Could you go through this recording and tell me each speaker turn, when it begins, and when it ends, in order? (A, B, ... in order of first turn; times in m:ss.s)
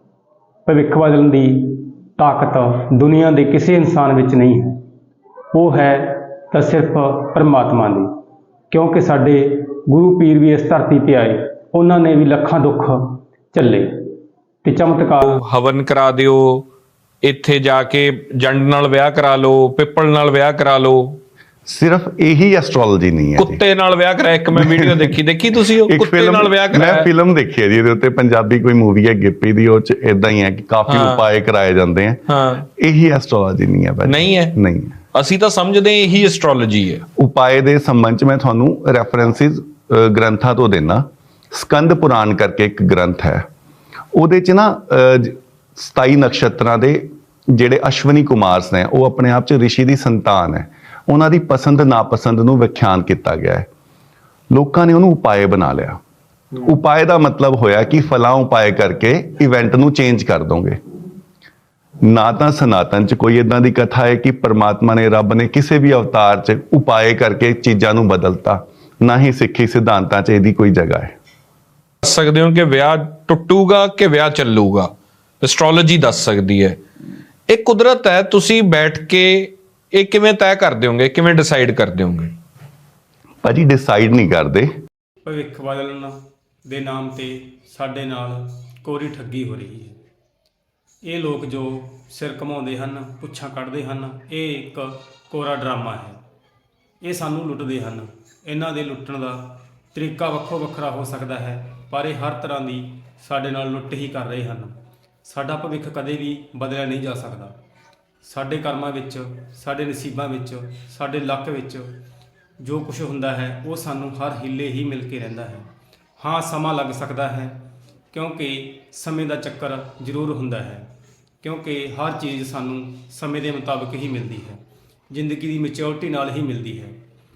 0:00.7-0:04.8 A
0:05.5-0:08.1 A
0:08.7-0:14.1 A
0:14.6-0:15.4 A
0:15.2-0:16.7 B
0:17.2-0:21.2 B
0:21.7-0:23.6 C
0:23.4-0:27.1 B
0:24.6-0:25.1 C
0:25.9-0:32.2 C
0:30.9-0:31.2 B
0:32.3-0:32.7 B
0:32.8-0:35.0 C
0:34.1-0:34.6 B
0:35.1-0:37.0 B
0:37.2-0:43.4 C
0:44.1-0:53.7 C
0:54.5-0:56.0 C
0:56.6-1:00.8 C
1:02.0-1:11.1 C
1:12.0-1:16.8 B
1:17.5-1:22.4 B
1:23.4-1:24.7 C
1:25.2-1:30.0 A
1:31.0-1:36.2 A
1:37.0-1:47.6 A
1:48.2-1:52.0 A
1:52.6-2:00.9 A
2:01.4-2:07.0 A